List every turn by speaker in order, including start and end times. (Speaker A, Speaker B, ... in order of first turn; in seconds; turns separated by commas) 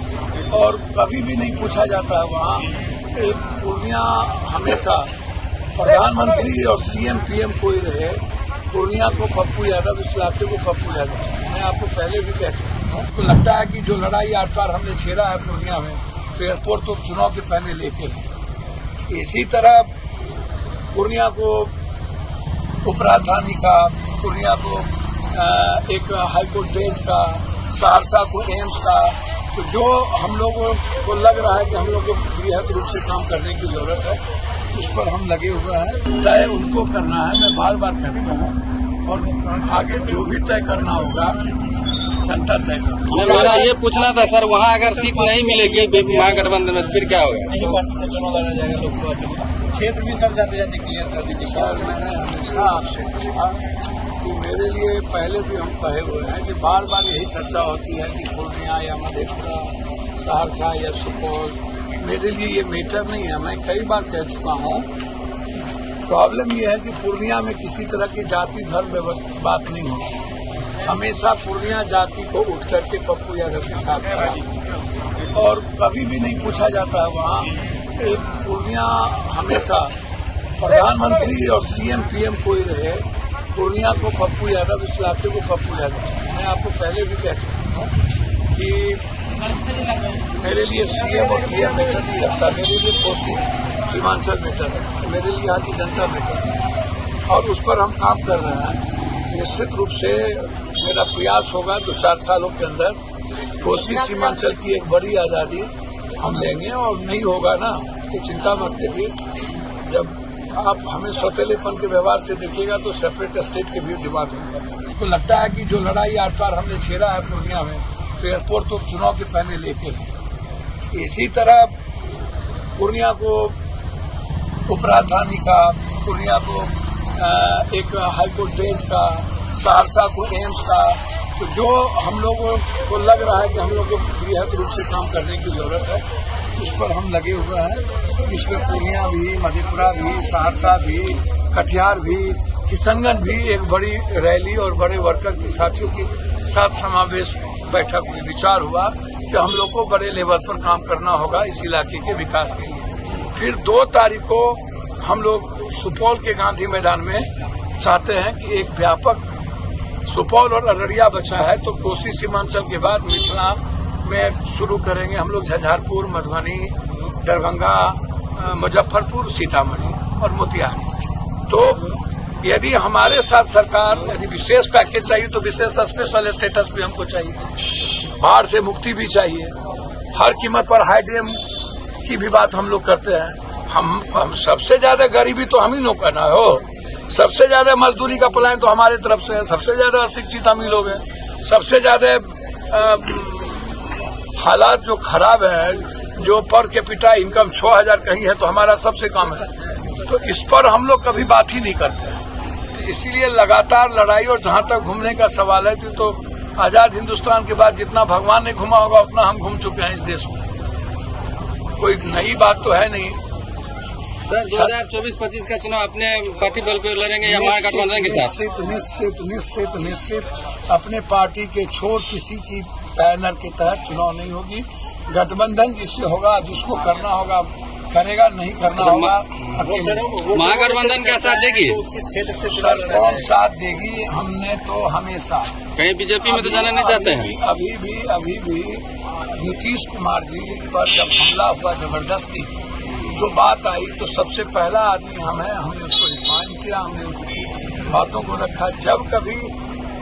Speaker A: 0.5-5.1, Speaker A: 5.8-18.3, Speaker A: 19.1-20.0, Speaker A: 20.9-21.7, Speaker A: 22.8-34.2, Speaker A: 34.7-41.4, Speaker A: 42.2-43.7, Speaker B: 43.1-47.8, Speaker C: 45.0-46.3, Speaker C: 47.5-52.2, Speaker A: 51.5-53.6, Speaker A: 54.2-64.9, Speaker A: 66.0-70.2, Speaker A: 70.8-74.4, Speaker A: 75.3-80.0, Speaker A: 80.6-87.9, Speaker A: 88.5-89.0, Speaker A: 90.2-96.5, Speaker A: 97.3-103.0, Speaker A: 103.6-109.2, Speaker A: 109.8-120.1, Speaker A: 120.9-121.8, Speaker A: 122.8-123.6, Speaker A: 124.7-159.3, Speaker A: 160.0-170.9, Speaker A: 171.5-177.5, Speaker A: 178.1-179.5, Speaker A: 180.1-181.4, Speaker A: 182.0-210.4, Speaker A: 211.8-213.2, Speaker B: 214.2-218.3, Speaker A: 214.4-214.7, Speaker A: 217.2-230.1, Speaker B: 228.8-229.6, Speaker C: 229.6-233.3, Speaker B: 230.2-231.8, Speaker A: 232.5-235.6, Speaker B: 235.8-237.3, Speaker A: 236.2-249.5